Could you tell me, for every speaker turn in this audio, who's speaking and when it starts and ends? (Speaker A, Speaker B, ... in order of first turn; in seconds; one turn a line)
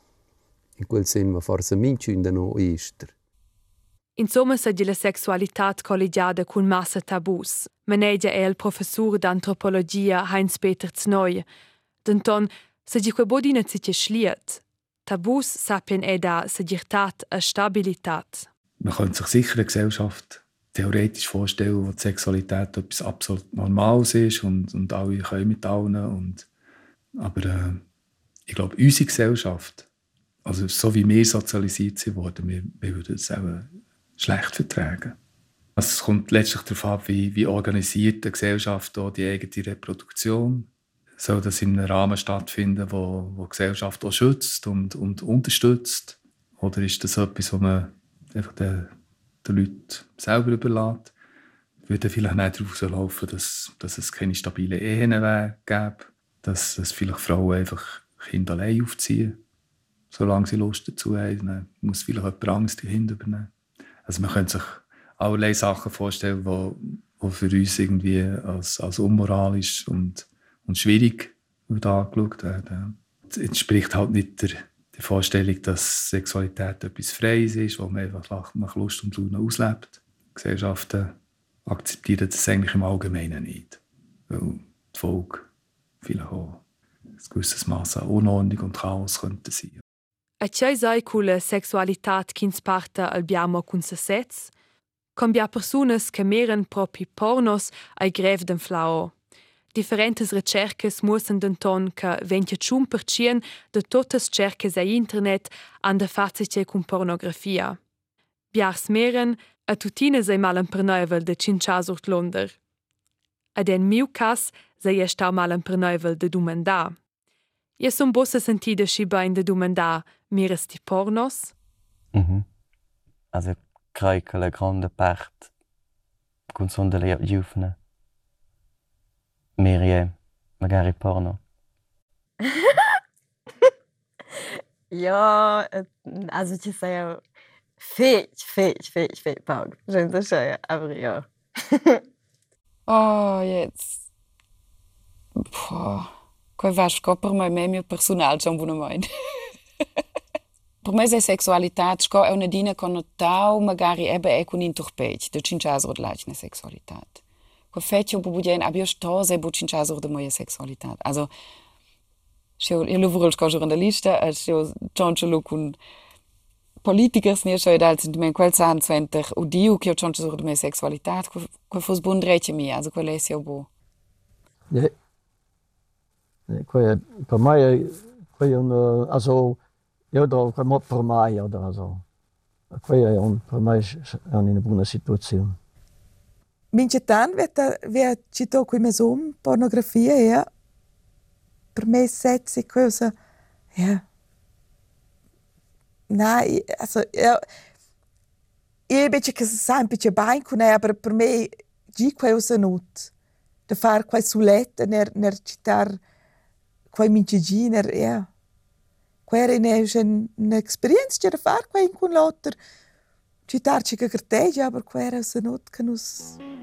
Speaker A: 0.8-3.1
Speaker B: 4.2-11.4
Speaker B: 12.0-18.5
Speaker C: 18.8-26.5
Speaker C: 27.1-27.8
Speaker C: 28.5-29.9
Speaker C: 30.4-35.1
Speaker C: 35.8-40.7
Speaker C: 41.2-48.9
Speaker C: 49.4-51.1
Speaker C: 51.8-59.4
Speaker C: 60.1-63.5
Speaker C: 64.0-81.1
Speaker C: 81.7-85.5
Speaker C: 86.0-86.6
Speaker C: 87.1-89.8
Speaker B: 90.4-94.5
Speaker B: 95.2-99.1
Speaker B: 99.7-107.8
Speaker B: 108.5-112.6
Speaker B: 113.5-117.0
Speaker B: 117.8-121.5
Speaker D: 122.1-122.4
Speaker D: 123.3-125.5
Speaker D: 126.5-127.7
Speaker D: 129.6-131.4
Speaker E: 132.4-133.0
Speaker E: 134.9-137.2
Speaker E: 137.8-142.0
Speaker F: 142.9-144.0
Speaker F: 145.4-149.0
Speaker F: 150.8-161.3
Speaker F: 162.6-165.8
Speaker F: 166.8-173.7
Speaker G: 176.5-179.6
Speaker G: 180.1-182.0
Speaker G: 182.7-185.6
Speaker H: 186.7-190.5
Speaker H: 191.7-193.1
Speaker H: 193.7-194.0
Speaker H: 196.1-197.4
Speaker H: 198.9-203.1
Speaker H: 203.7-206.0
Speaker H: 206.9-208.3
Speaker H: 209.3-212.6
Speaker H: 213.5-216.4